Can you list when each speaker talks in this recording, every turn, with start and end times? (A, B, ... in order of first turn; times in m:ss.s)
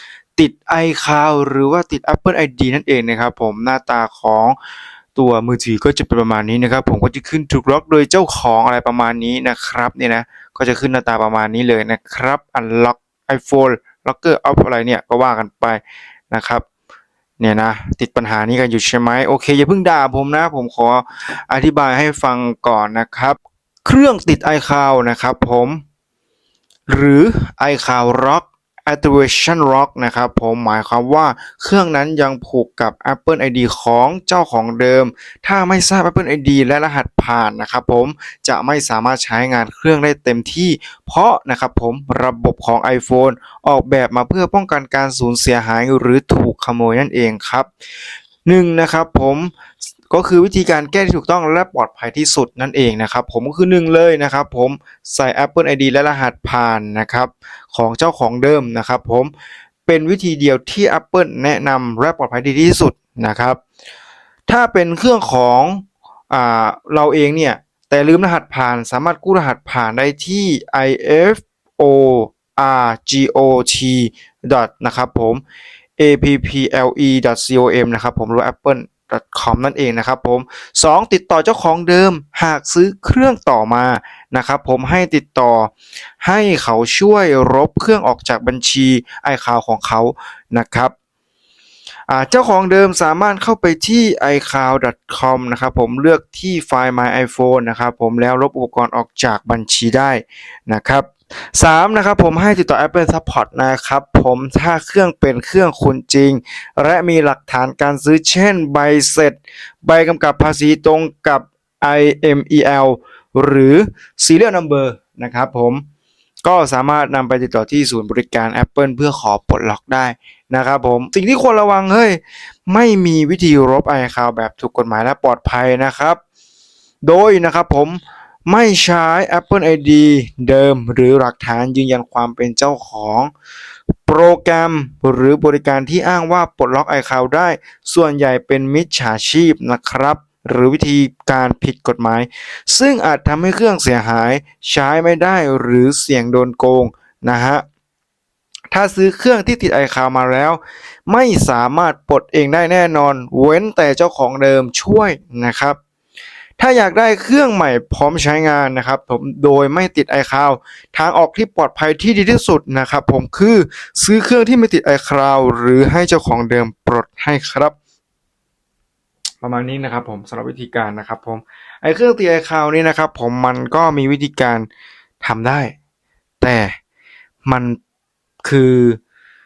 0:00.4-0:04.6 A
0:05.2-0:16.6 A
0:17.4-0:25.8 A
0:26.9-0:47.7 A
0:48.4-0:49.5 A
0:50.1-0:59.3 A
0:59.9-1:03.6 A
1:04.5-1:15.4 A
1:16.0-1:30.9 A
1:32.1-1:55.8 A
1:56.4-2:06.2 A
2:07.0-2:13.3 A
2:14.1-2:27.6 A
2:28.7-2:35.8 A
2:36.6-2:47.8 A
2:49.4-2:54.7 A
2:55.2-2:55.7 A
2:56.4-2:56.7 A
2:57.5-2:57.8 A
2:58.4-2:59.0 A